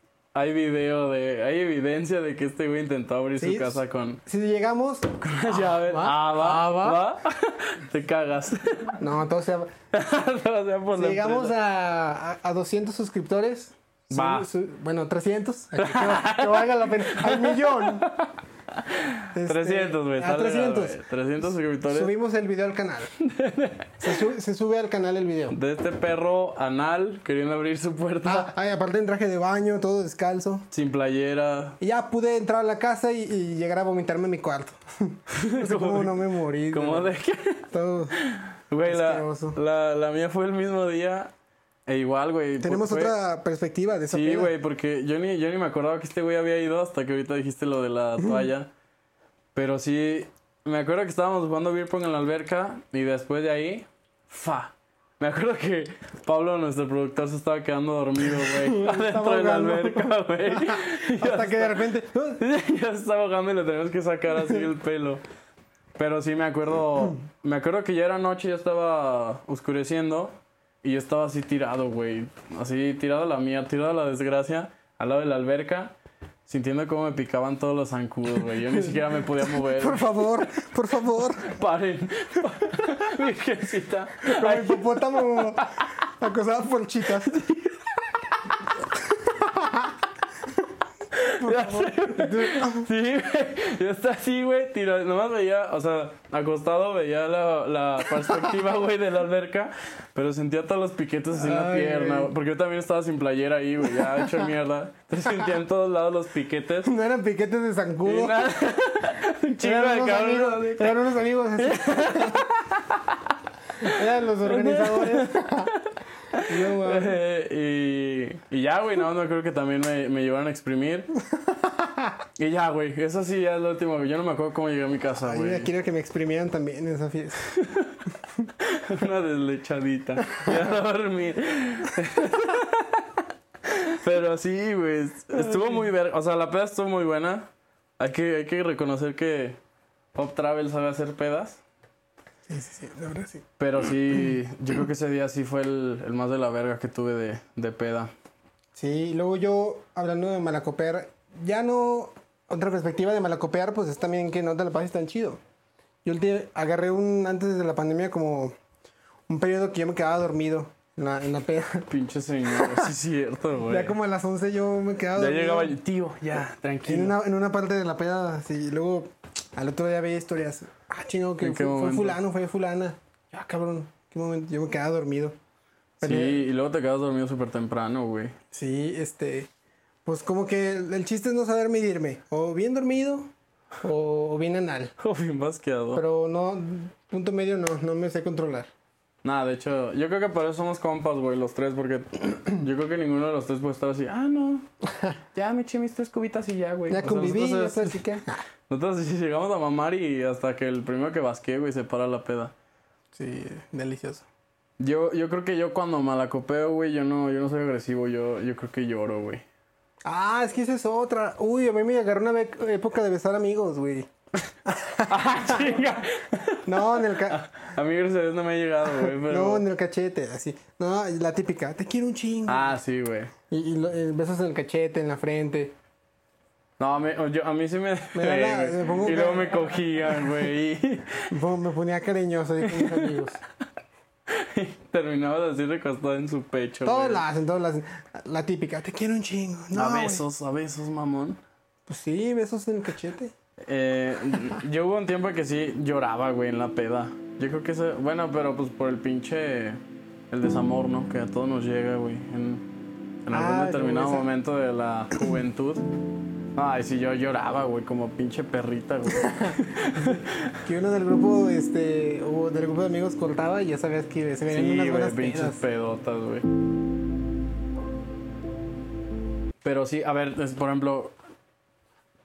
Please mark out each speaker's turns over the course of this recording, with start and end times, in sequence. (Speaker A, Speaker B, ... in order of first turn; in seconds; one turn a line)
Speaker A: 0.3-4.2
Speaker B: 3.4-7.0
Speaker A: 5.2-9.0
Speaker B: 9.0-9.7
Speaker A: 9.9-11.5
Speaker B: 10.9-18.1
Speaker A: 14.1-14.5
Speaker A: 15.8-22.1
Speaker B: 19.3-21.0
Speaker B: 21.9-23.1
Speaker A: 23.2-24.0
Speaker B: 24.0-25.6
Speaker A: 25.5-28.5
Speaker B: 28.2-30.7
Speaker A: 30.7-31.8
Speaker B: 31.8-37.1
Speaker A: 35.3-41.3
Speaker B: 37.7-38.1
Speaker B: 38.8-39.6
Speaker A: 41.9-43.1
Speaker B: 42.6-44.5
Speaker A: 44.1-48.7
Speaker A: 49.5-65.2
Speaker B: 58.4-62.4
Speaker A: 66.0-75.9
Speaker A: 76.5-80.2
Speaker B: 78.8-81.5
Speaker A: 81.4-85.6
Speaker B: 84.2-87.5
Speaker A: 87.3-87.7
Speaker B: 89.0-89.9
Speaker A: 91.1-106.9
Speaker B: 91.4-92.9
Speaker B: 101.3-102.3
Speaker B: 103.9-104.5
Speaker B: 106.8-108.5
Speaker A: 108.0-111.0
Speaker B: 109.5-112.5
Speaker A: 111.6-113.2
Speaker B: 113.8-115.7
Speaker A: 113.8-121.1
Speaker B: 116.4-117.2
Speaker B: 121.6-122.1
Speaker A: 122.4-125.7
Speaker B: 125.2-127.5
Speaker A: 127.5-128.0
Speaker A: 128.6-137.5
Speaker B: 130.4-130.7
Speaker B: 135.3-135.8
Speaker A: 138.0-139.6
Speaker A: 140.1-141.6
Speaker B: 142.5-143.4
Speaker A: 143.6-148.1
Speaker B: 148.7-155.4
Speaker B: 156.0-158.5
Speaker B: 159.3-161.9
Speaker A: 161.9-163.9
Speaker B: 162.5-162.9
Speaker B: 163.6-165.8
Speaker A: 165.2-167.2
Speaker B: 166.8-175.3
Speaker A: 171.4-172.2
Speaker B: 176.0-176.4
Speaker A: 176.0-178.3
Speaker B: 178.5-179.5
Speaker B: 180.0-184.9
Speaker A: 185.0-186.0
Speaker B: 185.9-188.7
Speaker A: 189.2-194.7
Speaker A: 195.3-198.0
Speaker B: 196.9-198.4
Speaker A: 198.7-202.5
Speaker B: 203.1-204.2
Speaker A: 204.8-209.4
Speaker B: 210.0-214.1
Speaker B: 214.6-215.9
Speaker A: 215.1-219.7
Speaker B: 216.6-217.4
Speaker B: 218.9-222.8
Speaker A: 222.5-223.3
Speaker B: 223.5-225.7
Speaker A: 226.8-231.3
Speaker B: 228.1-229.7
Speaker B: 231.3-233.4
Speaker A: 232.7-233.1
Speaker A: 234.3-237.2
Speaker B: 236.8-240.2
Speaker A: 239.7-241.4
Speaker B: 241.9-243.3
Speaker A: 243.6-252.7
Speaker A: 253.2-255.8
Speaker B: 253.3-254.3
Speaker A: 256.5-260.5
Speaker B: 259.1-265.6
Speaker A: 264.5-266.4
Speaker A: 269.6-271.1